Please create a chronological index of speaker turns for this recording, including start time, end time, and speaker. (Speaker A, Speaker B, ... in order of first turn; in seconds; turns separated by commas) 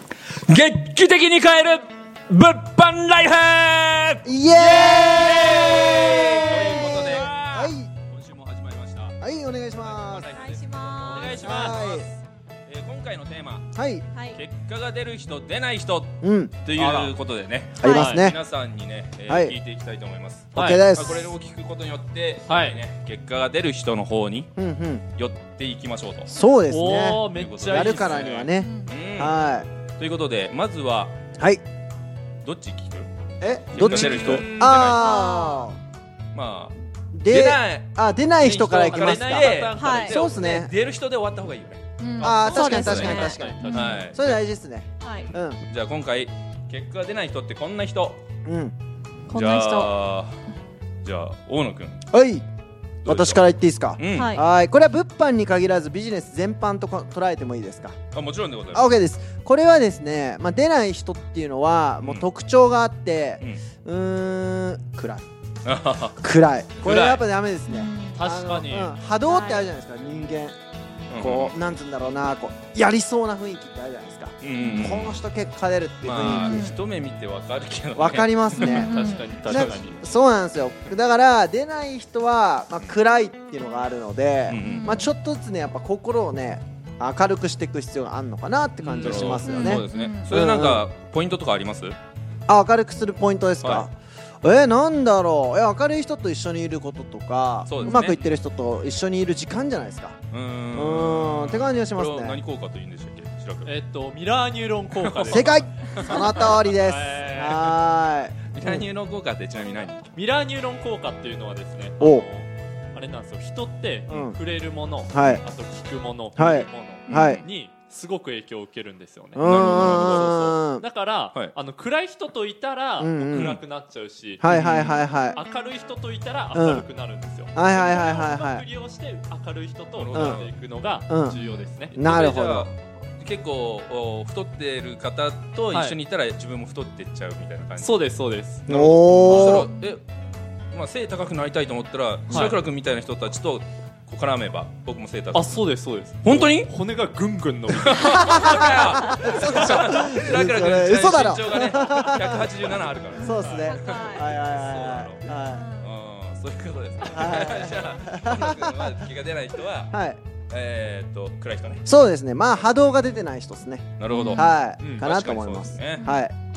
Speaker A: 0.4-9.2, Speaker B: 4.2-7.9, Speaker B: 9.2-10.3, Speaker A: 9.8-12.1, Speaker C: 10.3-11.6, Speaker D: 11.0-11.8, Speaker B: 11.3-12.1, Speaker A: 12.7-13.7, Speaker B: 13.7-14.0, Speaker C: 14.1-14.4, Speaker A: 14.3-24.5, Speaker B: 16.2-16.6, Speaker D: 16.8-17.1, Speaker B: 17.8-18.4, Speaker D: 17.9-18.3, Speaker B: 19.2-19.6, Speaker D: 20.6-20.9, Speaker B: 20.6-21.3, Speaker D: 22.5-22.8, Speaker B: 24.6-25.0, Speaker A: 25.1-26.3, Speaker B: 26.3-29.7, Speaker D: 26.7-28.5, Speaker A: 27.3-29.3, Speaker C: 28.6-28.9, Speaker A: 29.9-31.1, Speaker A: 32.4-33.1, Speaker B: 33.4-35.8, Speaker A: 33.7-35.1, Speaker D: 33.8-34.9, Speaker C: 34.9-35.7, Speaker A: 36.3-36.7, Speaker B: 37.1-40.7, Speaker A: 37.3-41.8, Speaker D: 38.9-40.5, Speaker C: 39.7-40.2, Speaker C: 42.0-44.0, Speaker D: 42.2-44.0, Speaker B: 42.2-45.6, Speaker A: 42.5-44.4, Speaker C: 45.0-45.3, Speaker A: 45.6-48.2, Speaker B: 48.4-48.7, Speaker C: 49.3-49.9, Speaker A: 49.3-50.4, Speaker A: 51.0-52.0, Speaker B: 52.1-52.4, Speaker A: 53.0-54.3, Speaker B: 53.0-58.0, Speaker C: 54.1-54.4, Speaker A: 58.1-58.9, Speaker B: 58.7-65.2, Speaker A: 65.7-66.2, Speaker B: 66.2-70.6, Speaker A: 66.8-67.2, Speaker C: 67.7-68.2, Speaker D: 68.1-68.9, Speaker C: 69.2-69.7, Speaker A: 71.1-71.5, Speaker B: 71.2-76.6, Speaker A: 74.4-75.2, Speaker C: 74.6-74.9, Speaker A: 76.0-78.8, Speaker C: 76.2-76.8, Speaker B: 78.0-90.8, Speaker D: 78.5-80.0, Speaker C: 78.6-79.3, Speaker A: 84.5-85.0, Speaker C: 84.6-85.1, Speaker A: 88.9-92.0, Speaker D: 89.0-89.2, Speaker C: 89.4-90.3, Speaker B: 92.5-100.2, Speaker A: 93.6-93.9, Speaker A: 97.6-98.2, Speaker A: 100.3-103.7, Speaker B: 100.7-102.4, Speaker D: 103.6-107.8, Speaker A: 105.0-106.5, Speaker B: 105.2-108.8, Speaker A: 108.5-110.1, Speaker D: 110.1-131.9, Speaker B: 112.0-112.2, Speaker B: 114.1-114.4, Speaker B: 115.1-115.4, Speaker B: 116.3-117.4, Speaker C: 117.1-117.4, Speaker B: 119.3-120.8, Speaker A: 119.4-120.6, Speaker B: 123.0-123.6, Speaker B: 124.4-125.4, Speaker A: 124.5-124.8, Speaker B: 126.5-126.8, Speaker B: 127.5-128.6, Speaker A: 129.9-130.5, Speaker B: 130.1-130.4, Speaker B: 131.1-131.4, Speaker C: 131.3-131.7, Speaker B: 131.9-132.7, Speaker A: 131.9-137.9, Speaker D: 135.7-136.0, Speaker D: 137.8-138.6, Speaker B: 138.7-139.7, Speaker A: 138.7-140.0, Speaker C: 139.2-140.0, Speaker A: 140.7-145.6, Speaker D: 142.3-142.6, Speaker D: 145.3-148.6, Speaker A: 146.2-146.7, Speaker A: 147.7-155.2, Speaker B: 148.4-152.5, Speaker D: 149.1-149.6, Speaker B: 153.2-155.7, Speaker C: 153.2-154.3, Speaker D: 153.3-153.6, Speaker C: 155.2-155.9, Speaker A: 155.8-159.9, Speaker B: 157.1-158.8, Speaker B: 159.9-160.2, Speaker A: 160.5-161.8, Speaker B: 161.8-166.3, Speaker A: 164.0-166.0, Speaker C: 164.1-164.4, Speaker D: 164.4-165.0, Speaker C: 166.0-166.2